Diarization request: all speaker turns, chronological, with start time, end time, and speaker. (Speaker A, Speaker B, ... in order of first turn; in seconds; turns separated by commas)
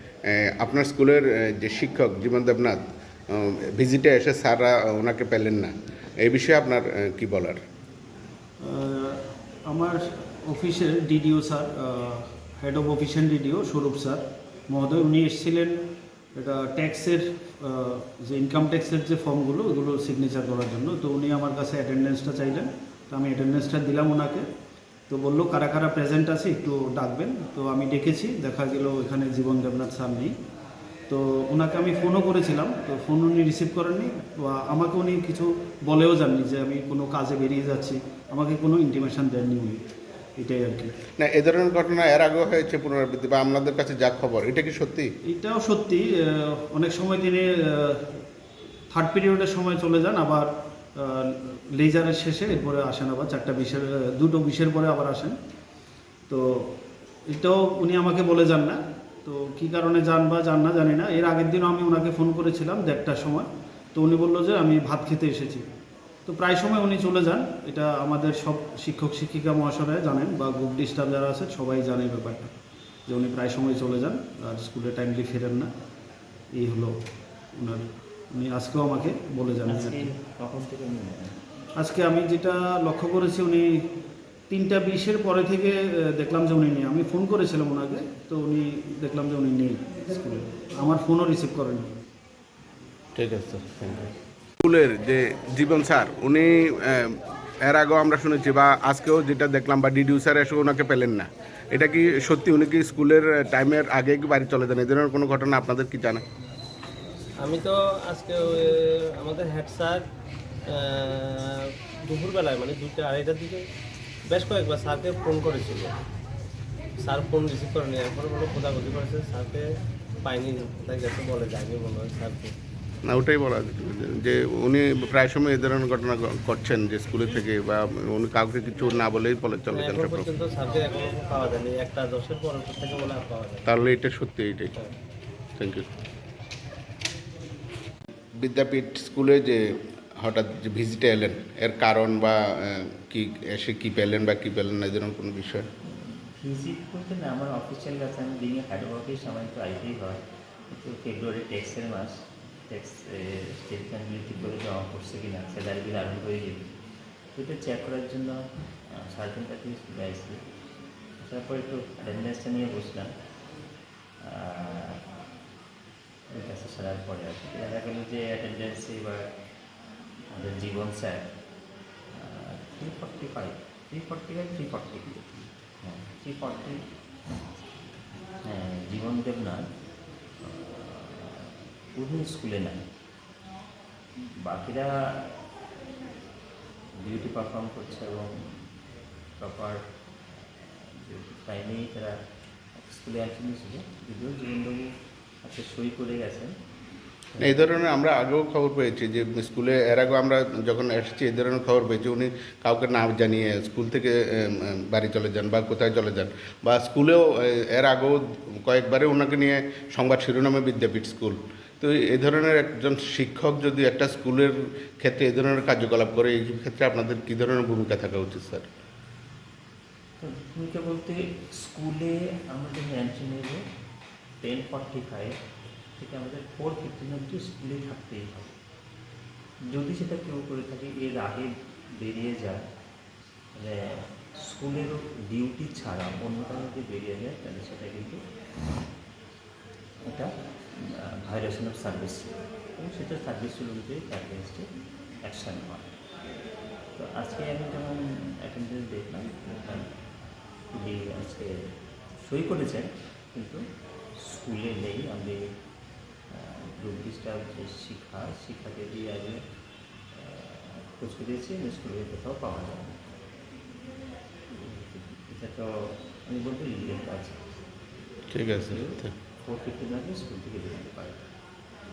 Speaker A: 0.3-2.8, Speaker A: 3.3-7.6, Speaker B: 8.6-15.8, Speaker B: 16.3-24.4, Speaker B: 25.1-30.3, Speaker B: 31.1-39.8, Speaker B: 40.4-40.9, Speaker A: 41.2-45.1, Speaker B: 45.3-48.2, Speaker B: 48.9-55.3, Speaker B: 56.3-56.7, Speaker B: 57.3-65.6, Speaker B: 66.2-72.5, Speaker B: 73.1-75.7, Speaker B: 76.5-76.9, Speaker B: 77.6-80.1, Speaker C: 79.7-81.3, Speaker B: 81.8-83.8, Speaker B: 84.5-91.9, Speaker A: 93.2-94.0, Speaker A: 94.6-106.2, Speaker D: 107.4-110.0, Speaker D: 110.7-113.7, Speaker D: 114.3-116.0, Speaker D: 117.0-119.7, Speaker D: 120.2-122.5, Speaker A: 123.0-130.4, Speaker D: 129.7-133.7, Speaker A: 133.7-134.7, Speaker A: 135.6-135.9, Speaker A: 138.4-145.7, Speaker C: 145.9-156.8, Speaker C: 157.3-160.4, Speaker C: 161.2-163.1, Speaker C: 164.2-165.0, Speaker C: 166.3-169.3, Speaker C: 170.3-171.3, Speaker C: 172.1-176.8, Speaker C: 178.4-179.7, Speaker C: 180.4-182.8, Speaker C: 184.4-185.4, Speaker C: 187.0-188.6, Speaker C: 189.4-189.8, Speaker C: 190.6-192.2, Speaker C: 192.8-194.9, Speaker C: 195.4-196.5, Speaker C: 197.4-197.7, Speaker A: 197.4-218.7, Speaker C: 220.2-223.6, Speaker C: 224.4-225.3, Speaker C: 226.0-228.5, Speaker C: 229.7-232.6, Speaker C: 233.5-238.2, Speaker C: 240.0-244.7, Speaker C: 245.2-245.9, Speaker C: 246.9-250.1, Speaker C: 250.7-251.6, Speaker C: 252.2-253.6, Speaker C: 254.2-255.4, Speaker C: 256.3-259.4, Speaker C: 260.1-263.1, Speaker C: 264.5-267.5, Speaker A: 268.3-269.1, Speaker C: 268.5-271.2